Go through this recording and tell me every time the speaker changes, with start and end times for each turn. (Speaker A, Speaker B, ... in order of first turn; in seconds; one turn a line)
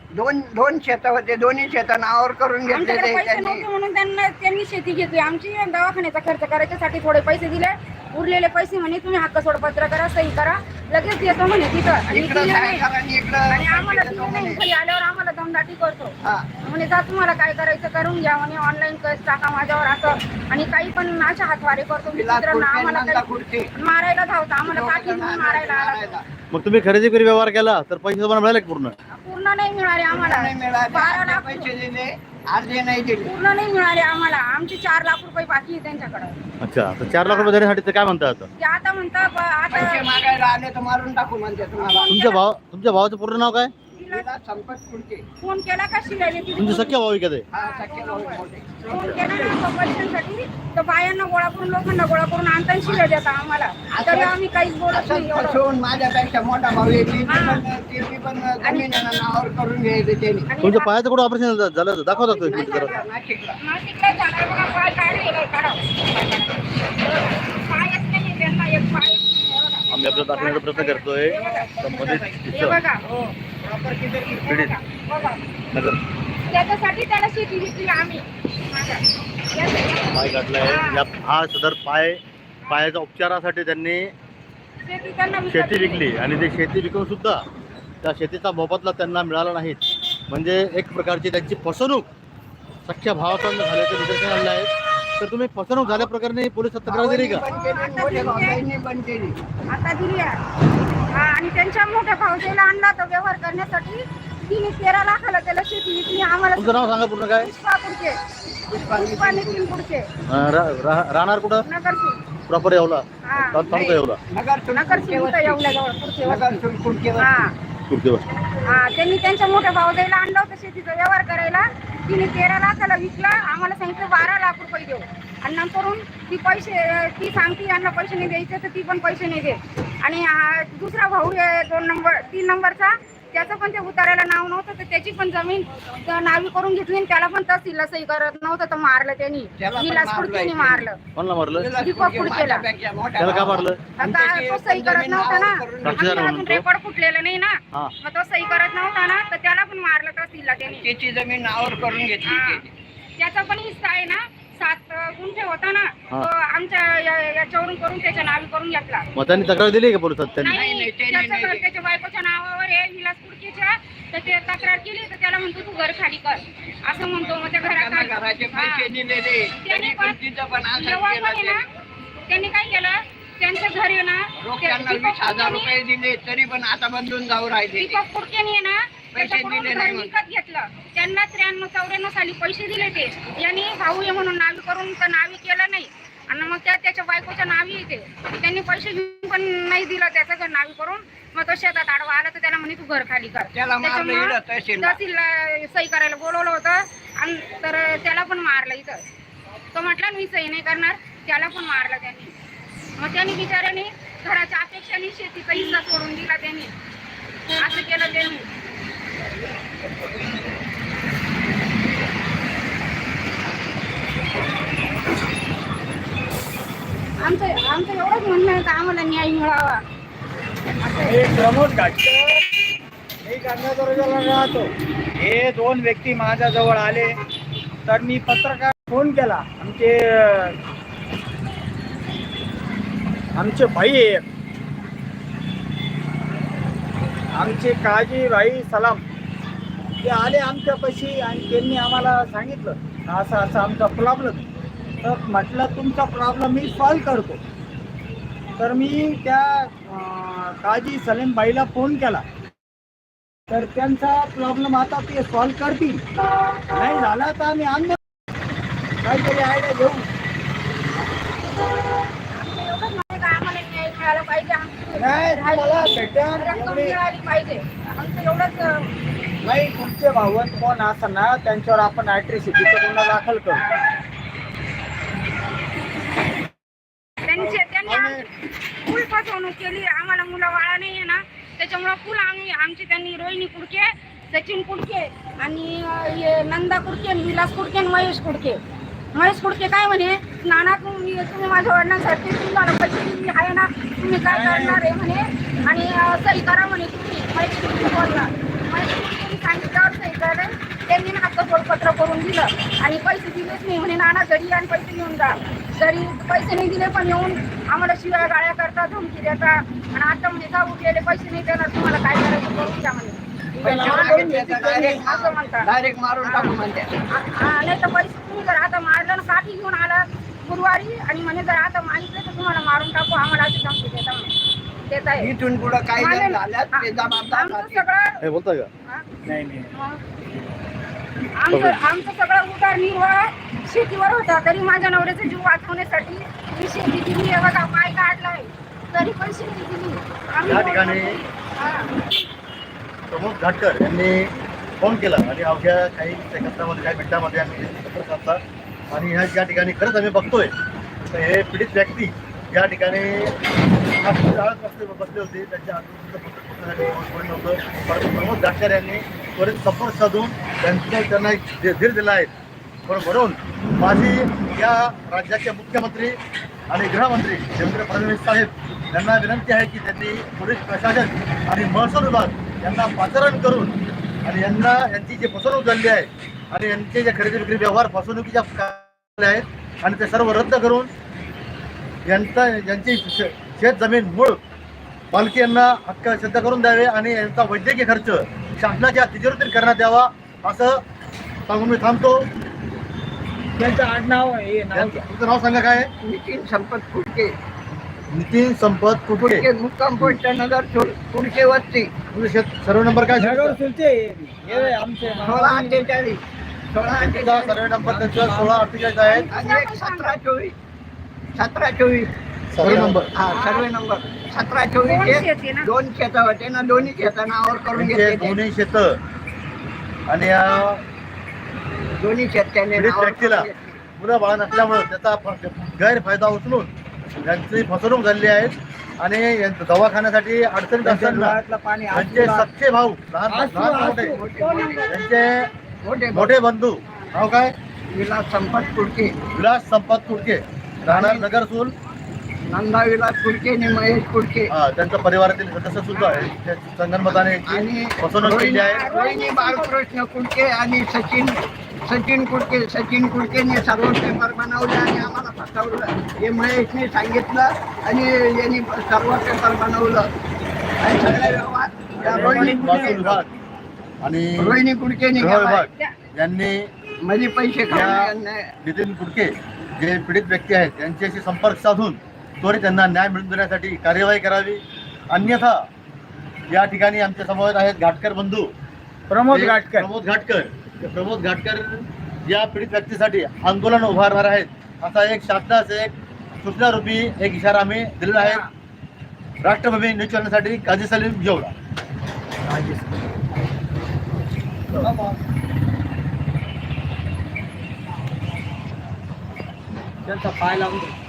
Speaker A: 0.1-3.6
Speaker B: 2.7-12.8
Speaker A: 12.1-14.6
Speaker B: 13.5-23.2
Speaker A: 22.1-23.7
Speaker B: 23.7-26.2
Speaker A: 24.6-26.2
Speaker C: 26.5-28.9
Speaker B: 29.1-31.7
Speaker A: 30.1-33.3
Speaker B: 33.2-36.4
Speaker C: 36.6-38.5
Speaker B: 37.2-37.5
Speaker B: 38.6-40.1
Speaker A: 39.7-42.1
Speaker B: 41.9-42.4
Speaker C: 42.1-43.7
Speaker B: 44.0-44.3
Speaker A: 44.1-45.2
Speaker B: 45.4-47.0
Speaker C: 46.6-47.4
Speaker A: 47.5-48.9
Speaker B: 47.5-55.6
Speaker C: 48.9-49.2
Speaker A: 52.9-53.2
Speaker A: 53.9-54.4
Speaker A: 54.9-60.5
Speaker B: 57.3-57.6
Speaker B: 58.6-59.2
Speaker B: 60.5-60.9
Speaker C: 60.6-62.9
Speaker B: 62.1-63.0
Speaker A: 62.5-63.6
Speaker B: 63.6-71.7
Speaker C: 69.9-72.8
Speaker D: 71.3-72.4
Speaker B: 72.5-73.0
Speaker D: 73.0-74.5
Speaker B: 74.3-75.4
Speaker C: 74.5-74.7
Speaker C: 75.7-76.0
Speaker B: 76.5-81.0
Speaker C: 80.1-84.1
Speaker B: 84.8-86.0
Speaker C: 85.5-87.4
Speaker C: 88.0-92.1
Speaker C: 92.8-97.4
Speaker A: 96.9-99.4
Speaker B: 97.5-98.6
Speaker B: 99.7-100.3
Speaker B: 101.1-108.2
Speaker C: 106.5-107.5
Speaker A: 108.7-109.7
Speaker B: 108.9-110.1
Speaker C: 110.3-111.7
Speaker B: 111.6-112.2
Speaker C: 112.5-114.2
Speaker B: 113.2-113.6
Speaker A: 113.7-115.6
Speaker B: 114.7-116.6
Speaker A: 116.2-117.4
Speaker B: 117.2-117.5
Speaker C: 117.9-118.2
Speaker B: 118.7-141.0
Speaker A: 139.6-140.9
Speaker C: 141.2-141.7
Speaker A: 141.6-146.3
Speaker B: 141.8-142.7
Speaker C: 143.2-143.8
Speaker B: 144.0-150.9
Speaker C: 145.8-146.6
Speaker A: 150.7-152.7
Speaker B: 152.2-152.6
Speaker B: 153.2-159.1
Speaker C: 159.1-160.6
Speaker B: 160.4-168.9
Speaker A: 160.5-161.7
Speaker A: 167.6-171.6
Speaker B: 169.6-170.2
Speaker B: 170.7-171.6
Speaker B: 172.3-175.7
Speaker A: 174.4-178.0
Speaker B: 177.8-199.0
Speaker A: 179.1-180.1
Speaker A: 193.5-195.0
Speaker B: 199.7-202.3
Speaker B: 203.0-206.7
Speaker B: 207.6-208.4
Speaker B: 217.2-219.8
Speaker B: 220.8-221.3
Speaker D: 221.0-222.4
Speaker D: 223.2-227.2
Speaker D: 227.8-230.6
Speaker D: 233.3-234.3
Speaker D: 237.3-239.0
Speaker D: 240.0-244.5
Speaker D: 245.0-247.4
Speaker D: 248.6-252.2
Speaker D: 253.5-256.0
Speaker D: 256.7-258.0
Speaker D: 259.0-260.1
Speaker B: 262.3-268.9
Speaker D: 265.0-267.0
Speaker D: 269.4-273.6
Speaker B: 277.3-278.2
Speaker D: 277.9-278.1
Speaker B: 278.9-288.6
Speaker B: 289.1-315.7
Speaker D: 294.2-294.8
Speaker A: 313.6-316.9
Speaker D: 313.6-315.0
Speaker B: 316.2-324.3
Speaker B: 324.9-325.3
Speaker A: 325.2-327.8
Speaker B: 325.9-328.2
Speaker C: 328.2-328.7
Speaker D: 329.2-329.7
Speaker B: 329.7-330.0
Speaker B: 331.4-342.0
Speaker C: 331.5-331.8
Speaker C: 340.4-341.2
Speaker C: 343.1-350.5
Speaker C: 351.1-353.3
Speaker C: 354.0-362.3
Speaker C: 362.9-366.2
Speaker C: 366.7-380.9
Speaker C: 382.1-384.4
Speaker C: 385.1-390.8
Speaker C: 391.5-392.3
Speaker D: 393.6-395.0
Speaker C: 394.7-395.9
Speaker A: 396.0-397.3
Speaker C: 398.1-399.4
Speaker A: 399.1-401.9
Speaker C: 402.1-403.6
Speaker D: 403.1-405.8
Speaker A: 404.5-406.2
Speaker A: 406.7-407.7
Speaker C: 407.0-409.3
Speaker D: 407.9-408.6
Speaker B: 409.1-410.2
Speaker A: 409.3-410.6
Speaker A: 411.3-412.1
Speaker C: 412.5-413.1
Speaker A: 412.6-418.4
Speaker B: 413.3-413.7
Speaker B: 414.8-415.7
Speaker C: 417.7-419.0
Speaker C: 420.1-420.8
Speaker A: 422.0-423.8
Speaker C: 422.7-423.5
Speaker C: 424.0-431.4
Speaker D: 430.8-432.5
Speaker C: 431.9-434.1
Speaker D: 433.3-435.0
Speaker A: 433.9-434.9
Speaker C: 434.9-435.4
Speaker A: 435.8-436.3
Speaker C: 436.1-437.5
Speaker A: 437.9-439.1
Speaker C: 439.3-441.7
Speaker A: 440.9-441.3
Speaker A: 442.5-444.5
Speaker C: 444.5-448.9
Speaker A: 445.9-446.3
Speaker A: 447.0-460.1
Speaker B: 448.6-449.7
Speaker A: 460.8-463.1
Speaker D: 462.0-463.2
Speaker C: 462.1-463.3
Speaker C: 464.0-464.6
Speaker A: 464.4-465.7
Speaker C: 465.2-466.7
Speaker A: 467.0-468.5
Speaker C: 467.7-468.1
Speaker C: 468.6-475.7
Speaker C: 476.5-478.5
Speaker D: 479.1-479.9
Speaker C: 479.3-488.4
Speaker D: 488.2-488.4
Speaker C: 489.4-491.5
Speaker D: 492.4-492.9
Speaker D: 494.8-495.2
Speaker D: 500.0-500.9